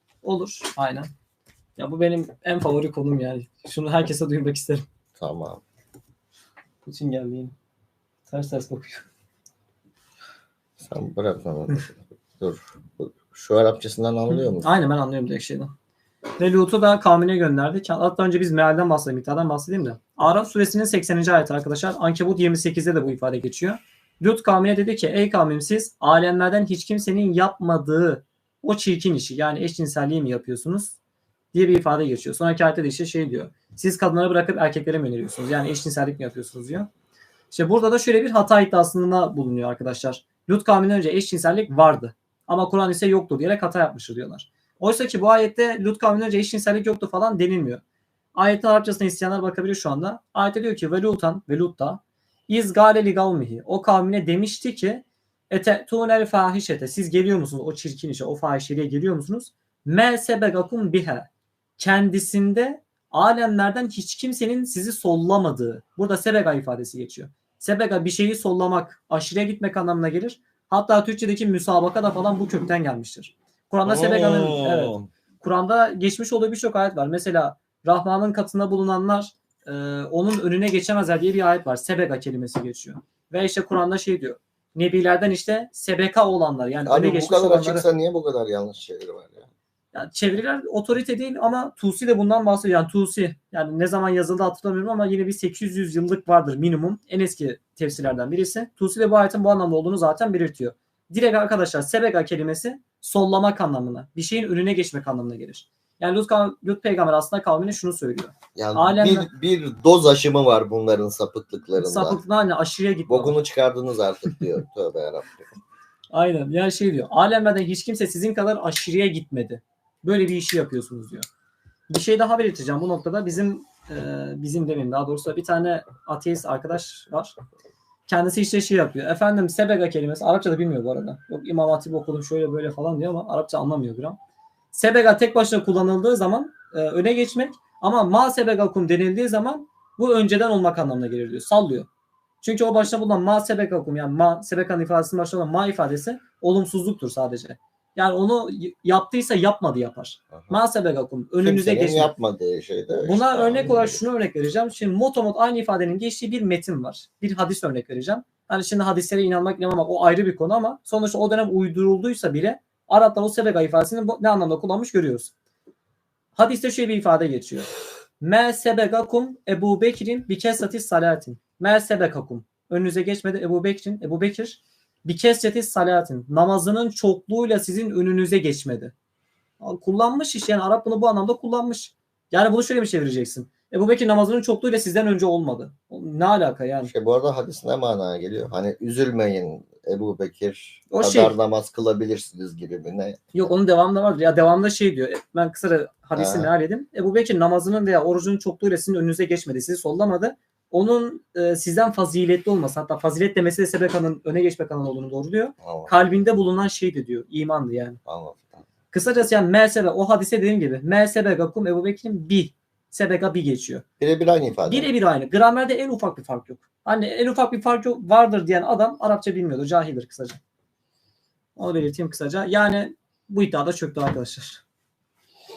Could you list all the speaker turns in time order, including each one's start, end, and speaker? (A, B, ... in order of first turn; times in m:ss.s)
0:00.2-0:01.1 A
0:01.8-0:04.8 A
0:05.2-0:05.6 B
0:06.8-0:07.5 A
0:08.3-0:09.0 A
0:10.8-0:14.7 B
0:14.3-0:15.7 A
0:16.4-0:31.0 A
0:31.5-0:36.9 A
0:37.5-0:47.8 A
0:48.3-1:27.8 A
1:13.8-1:15.1 B
1:26.8-1:29.5 B
1:29.9-1:49.3 A
1:48.5-1:52.2 B
1:51.8-1:53.3 A
1:53.1-1:55.4 B
1:56.1-2:01.2 A
2:01.9-2:07.4 A
2:08.1-2:14.2 A
2:14.7-2:21.9 A
2:22.4-2:32.1 A
2:30.3-2:30.6 B
2:31.4-2:34.0 B
2:33.0-2:45.3 A
2:46.3-2:47.7 A
2:48.2-2:58.9 A
2:59.6-3:06.9 A
3:06.8-3:13.5 B
3:10.9-3:11.4 A
3:13.3-3:28.0 A
3:16.2-3:16.5 B
3:25.6-3:25.9 B
3:28.1-3:28.6 B
3:28.9-3:33.8 A
3:34.0-3:34.9 B
3:34.6-3:40.4 A
3:41.6-3:44.6 A